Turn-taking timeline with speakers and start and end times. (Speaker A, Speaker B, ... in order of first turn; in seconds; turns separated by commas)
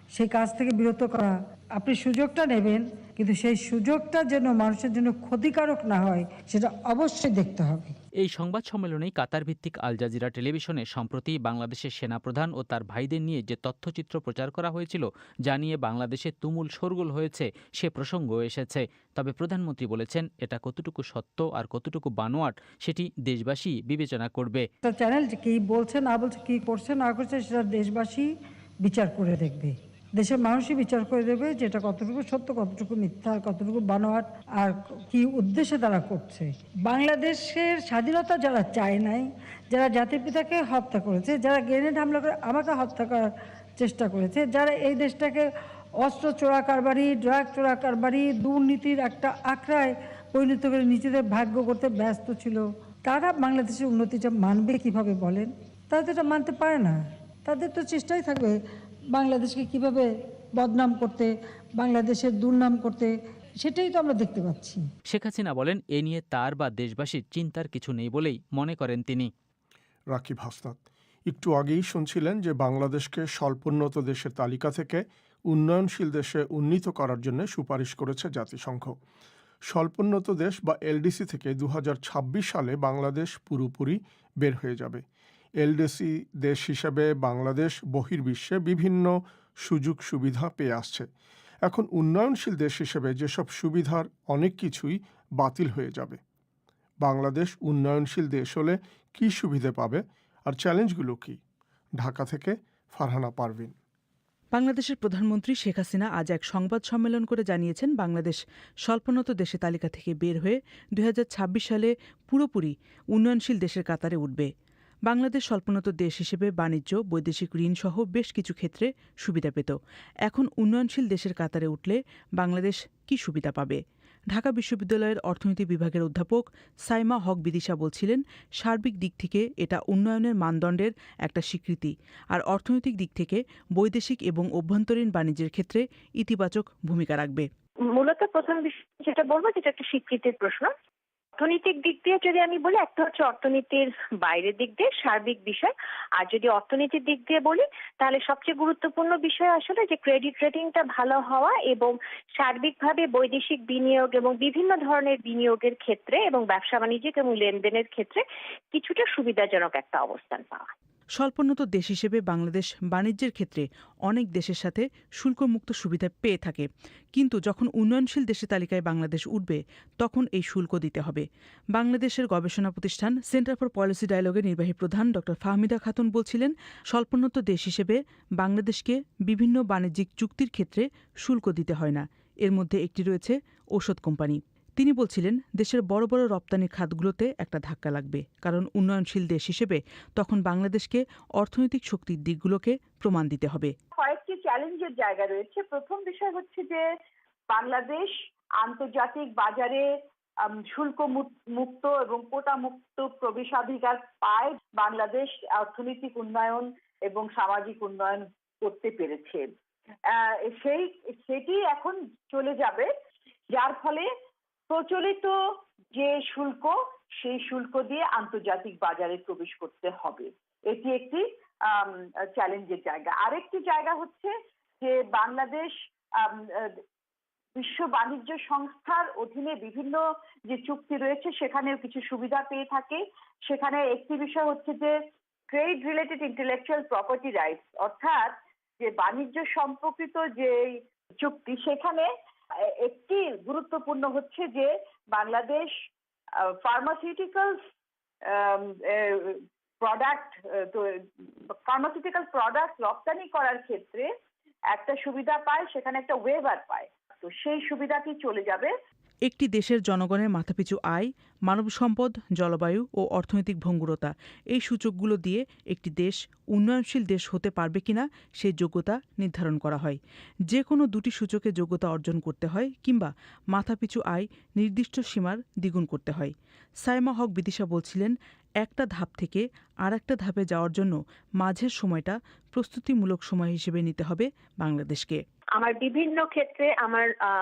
Speaker A: 0.1-8.0, Speaker B: 8.2-24.7, Speaker A: 24.8-28.3, Speaker A: 28.8-43.2, Speaker A: 43.8-45.5, Speaker A: 46.0-58.6, Speaker A: 59.1-64.8, Speaker B: 65.1-69.3, Speaker C: 70.1-79.0, Speaker C: 79.7-85.0, Speaker C: 85.6-91.1, Speaker C: 91.7-96.2, Speaker C: 97.0-101.4, Speaker C: 102.0-103.8, Speaker D: 104.5-114.5, Speaker D: 115.1-119.8, Speaker D: 120.3-123.8, Speaker D: 124.3-137.5, Speaker E: 137.9-140.7, Speaker E: 141.4-158.2, Speaker E: 158.7-160.7, Speaker D: 161.2-193.7, Speaker F: 193.9-196.9, Speaker F: 197.5-199.9, Speaker F: 200.4-209.5, Speaker F: 210.1-212.9, Speaker F: 213.5-214.1, Speaker F: 214.7-215.4, Speaker F: 215.9-226.8, Speaker F: 227.6-235.0, Speaker F: 235.5-242.1, Speaker F: 242.8-245.7, Speaker F: 246.4-247.6, Speaker F: 248.2-254.1, Speaker F: 254.7-258.7, Speaker D: 259.3-270.0, Speaker D: 270.5-276.3, Speaker D: 276.8-285.2, Speaker E: 285.6-287.1